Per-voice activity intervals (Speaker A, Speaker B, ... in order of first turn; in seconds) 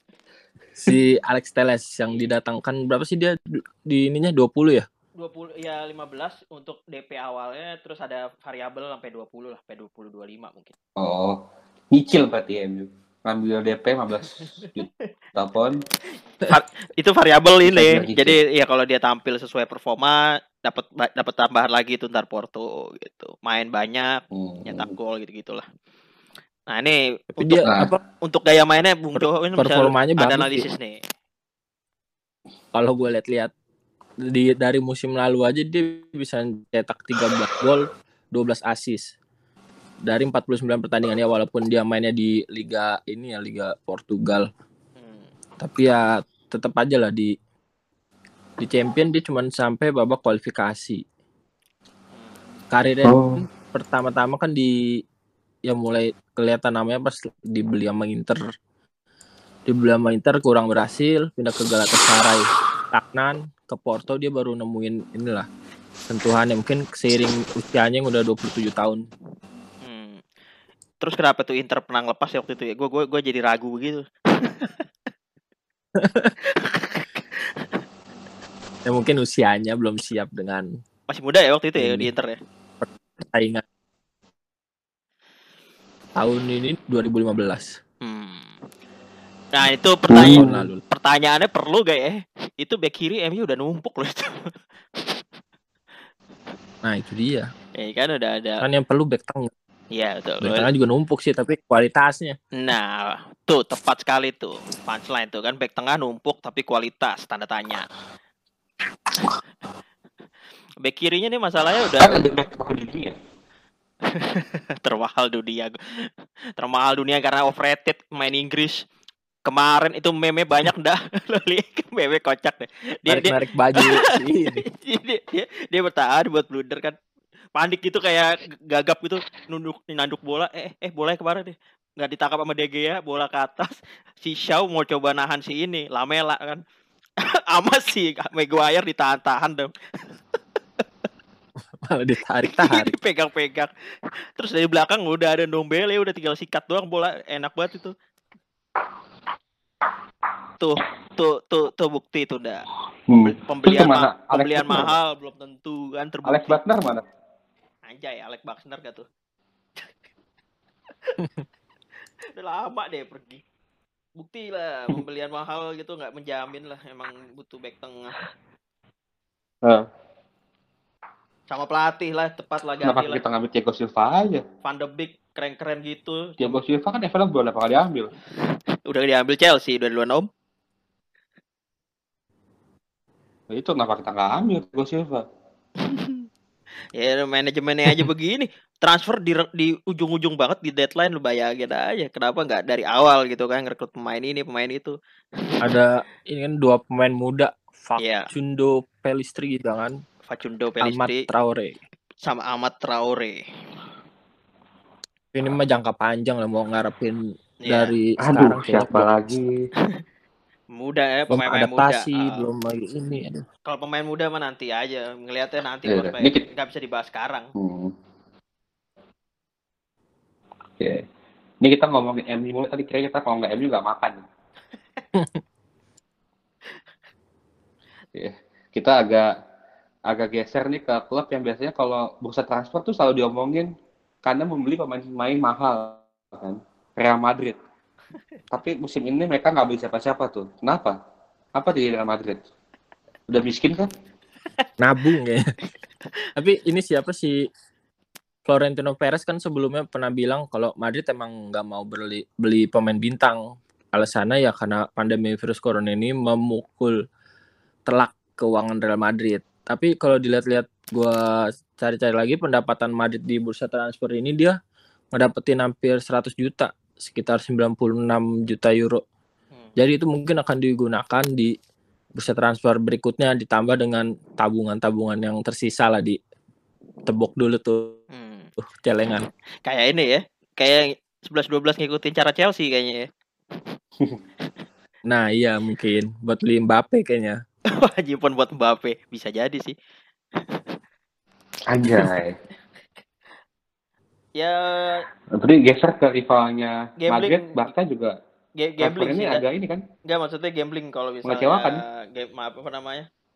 Speaker A: 0.8-4.9, 27.4-28.0, 29.1-30.7, 32.7-33.5, 34.2-39.1, 40.0-44.5, 45.6-47.4, 48.6-51.0, 52.7-54.7, 55.7-58.4, 59.7-65.5, 66.1-69.0, 76.0-76.3, 78.8-80.7, 81.8-82.1, 82.8-83.6, 86.2-87.8, 90.2-90.8, 96.8-97.5, 98.6-99.5, 100.4-102.4, 123.1-124.7, 141.8-142.9, 195.6-200.0, 200.8-201.8, 205.3-209.2, 211.3-213.4, 225.2-225.4, 244.8-245.4, 246.4-247.4, 248.5-253.4, 253.9-257.0, 257.9-264.6, 265.1-269.0, 269.8-271.6, 272.2-276.2, 277.1-278.0, 278.6-279.3, 285.1-287.4
Speaker B: 5.2-10.7, 16.4-25.6, 26.7-27.7, 28.2-31.0, 45.0-45.3, 52.1-52.4, 69.8-70.2, 71.0-74.8, 76.4-77.8, 81.1-82.4, 88.0-88.6, 89.5-94.5, 97.8-98.6, 99.9-100.7, 102.5-107.9, 110.8-112.2, 114.1-116.1, 116.6-118.8, 119.5-124.0, 124.7-127.0, 127.6-136.6, 137.5-139.7, 142.5-143.7, 144.4-147.9, 150.6-152.6, 153.2-156.6, 157.8-159.1, 162.4-163.4, 164.2-168.2, 171.5-173.2, 174.6-176.6, 178.9-180.3, 185.8-186.2, 187.0-194.9, 198.0-198.3, 200.3-201.3, 202.2-203.4, 207.6-207.9, 210.7-212.4, 213.7-217.5, 278.1-278.5, 279.7-283.1, 287.8-289.8, 294.4-295.1, 297.0-297.6, 298.6-299.4, 300.1-303.1
Speaker C: 11.0-15.8, 17.6-18.4, 24.3-24.9, 27.6-27.9, 53.0-53.5, 90.1-90.7, 112.0-113.2, 153.1-154.9, 156.2-157.0, 172.8-174.4, 176.4-178.1, 183.5-185.2, 208.2-209.5, 215.9-216.4, 217.6-217.9, 220.8-221.1, 221.6-224.2, 228.2-229.3, 230.1-233.7, 234.2-237.6, 238.5-241.0, 241.6-242.4, 243.3-243.9, 291.7-292.4, 295.3-298.2, 298.8-299.8, 301.2-301.8